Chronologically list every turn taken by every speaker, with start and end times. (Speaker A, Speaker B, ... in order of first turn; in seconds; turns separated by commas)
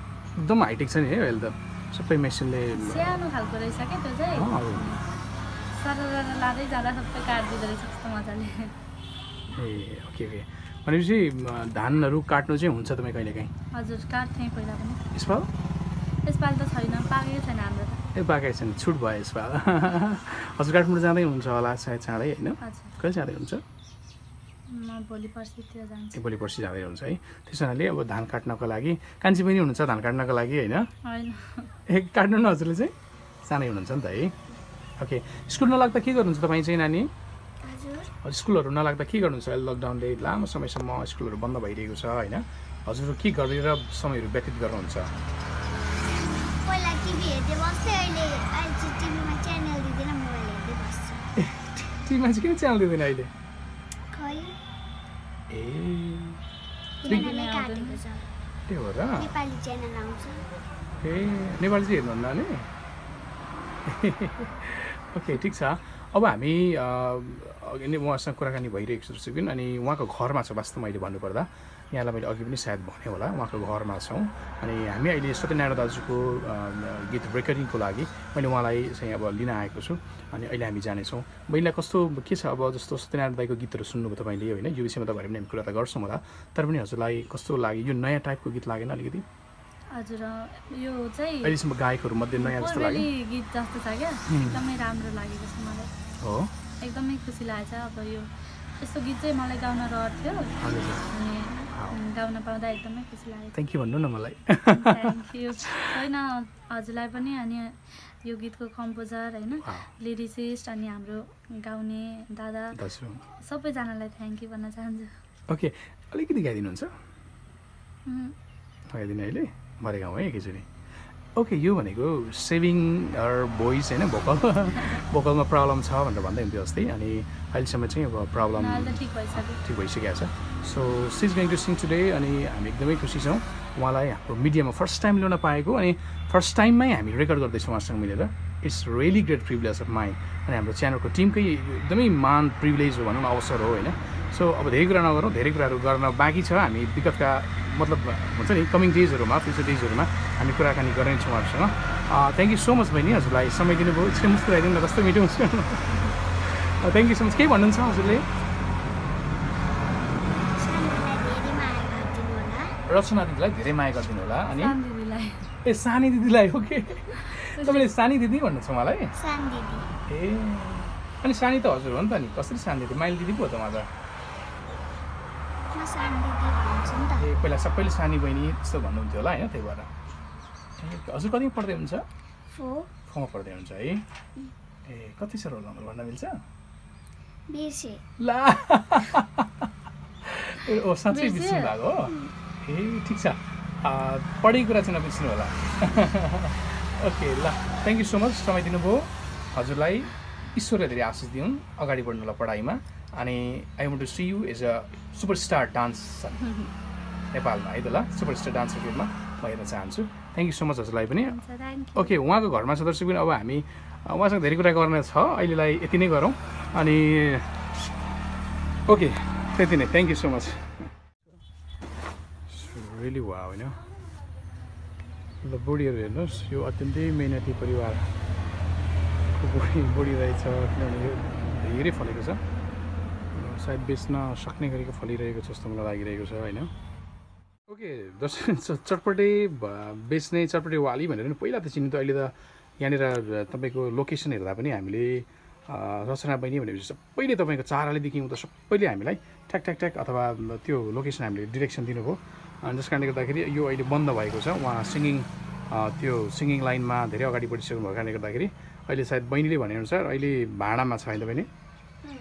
Speaker A: 0.4-3.2, Speaker B: 2.8-5.0, Speaker A: 4.3-4.9, Speaker B: 5.7-8.7, Speaker A: 9.5-13.5, Speaker B: 13.7-15.0, Speaker A: 15.1-15.5, Speaker B: 16.2-18.0, Speaker A: 18.1-23.6, Speaker B: 22.6-22.9, Speaker B: 24.7-26.2, Speaker A: 26.1-30.9, Speaker B: 31.1-31.7, Speaker A: 31.9-32.9, Speaker A: 33.4-34.3, Speaker A: 35.0-37.1, Speaker C: 37.6-38.1, Speaker A: 38.2-45.1, Speaker C: 46.1-51.3, Speaker A: 51.4-53.3, Speaker C: 54.1-54.6, Speaker A: 55.5-56.4, Speaker B: 57.0-58.0, Speaker C: 57.0-58.3, Speaker A: 58.7-59.4, Speaker C: 59.2-60.5, Speaker A: 61.0-62.7, Speaker A: 63.9-89.2, Speaker B: 89.9-91.6, Speaker A: 91.4-93.1, Speaker B: 92.4-95.9, Speaker A: 94.3-94.6, Speaker A: 96.2-96.5, Speaker B: 96.8-98.3, Speaker B: 98.8-100.5, Speaker A: 100.6-101.1, Speaker B: 101.1-103.5, Speaker A: 101.7-102.0, Speaker A: 103.5-106.0, Speaker B: 104.7-112.8, Speaker A: 109.6-109.9, Speaker A: 112.7-113.2, Speaker B: 113.4-115.1, Speaker A: 115.5-116.9, Speaker B: 118.1-118.3, Speaker A: 118.9-120.7, Speaker A: 121.4-158.3, Speaker B: 128.6-129.6, Speaker C: 160.6-162.8, Speaker A: 162.9-164.8, Speaker B: 164.5-165.5, Speaker A: 165.6-169.2, Speaker B: 167.4-167.9, Speaker C: 169.1-169.9, Speaker A: 170.1-173.9, Speaker C: 175.7-177.3, Speaker A: 177.2-179.9, Speaker A: 180.8-182.1, Speaker C: 182.5-182.9, Speaker A: 183.1-184.0, Speaker A: 184.8-186.3, Speaker C: 187.5-188.0, Speaker A: 188.2-189.7, Speaker A: 190.2-206.5, Speaker B: 191.1-191.8, Speaker A: 207.3-211.4, Speaker B: 211.2-212.2, Speaker A: 211.9-217.6, Speaker A: 218.9-220.8, Speaker A: 222.5-223.8, Speaker A: 225.4-228.0, Speaker A: 229.3-232.4, Speaker A: 233.3-236.7, Speaker A: 237.7-261.5